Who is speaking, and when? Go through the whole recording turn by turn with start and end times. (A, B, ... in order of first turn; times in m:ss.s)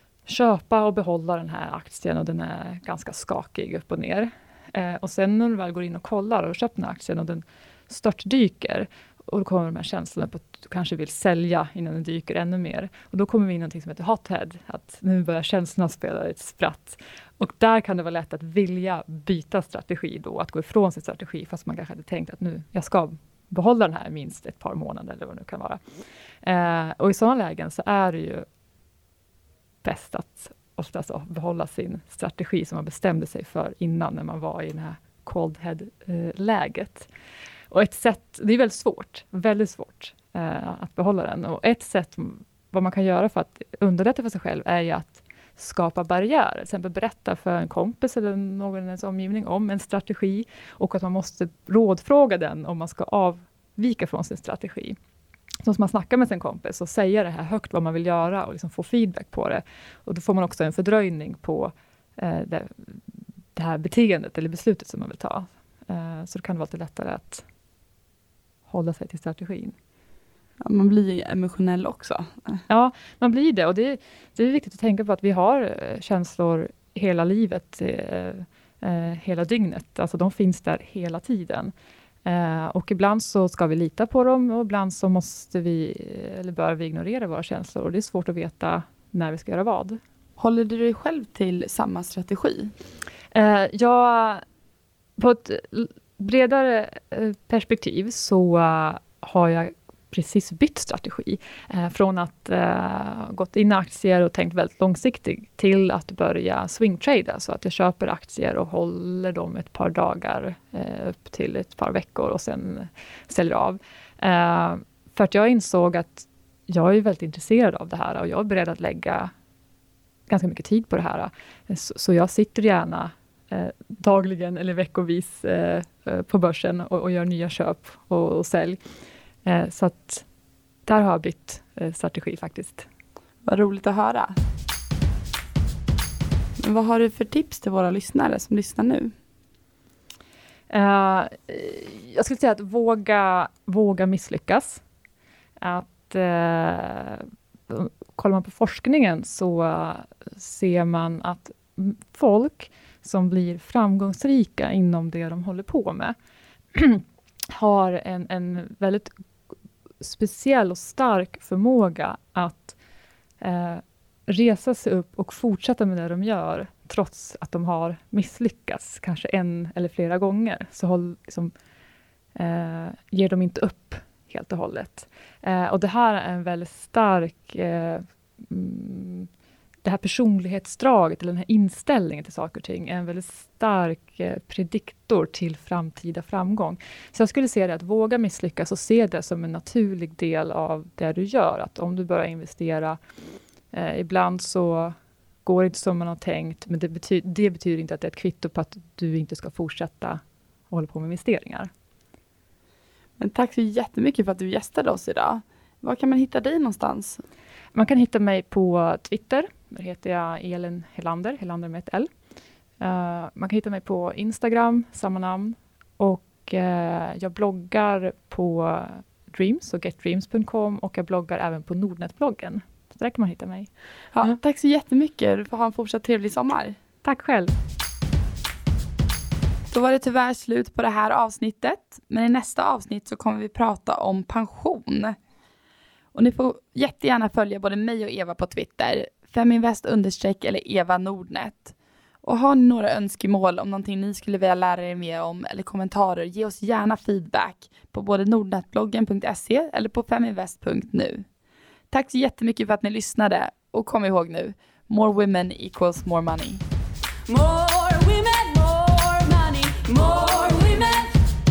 0:00.3-0:25.8 A
0:26.4-0:28.5 A
0:29.8-0:37.1 A
0:37.7-0:55.0 A
0:55.6-1:03.0 A
1:03.6-1:07.4 A
1:08.7-1:09.8 A
1:10.6-1:12.6 B
1:12.7-1:21.7 A
1:22.2-1:30.0 A
1:30.4-1:32.7 B
1:33.3-1:34.4 A
1:35.2-1:59.3 A
2:00.3-2:08.8 A
2:09.4-2:10.3 A
2:10.9-2:12.9 A
2:13.4-2:14.4 B
2:16.6-2:19.1 B
2:20.7-2:24.8 A
2:25.6-2:36.2 A
2:36.8-2:39.2 A
2:40.0-2:42.8 A
2:43.4-2:51.5 A
2:52.4-2:59.3 A
2:59.8-3:13.0 A
3:13.7-3:21.7 A
3:23.2-3:27.2 B
3:27.7-3:32.1 A
3:32.8-3:44.4 A
3:44.1-3:46.8 B
3:47.0-3:47.5 A
3:49.7-3:55.2 B
3:56.1-4:11.3 B
4:11.9-4:16.6 B
4:17.3-4:21.3 C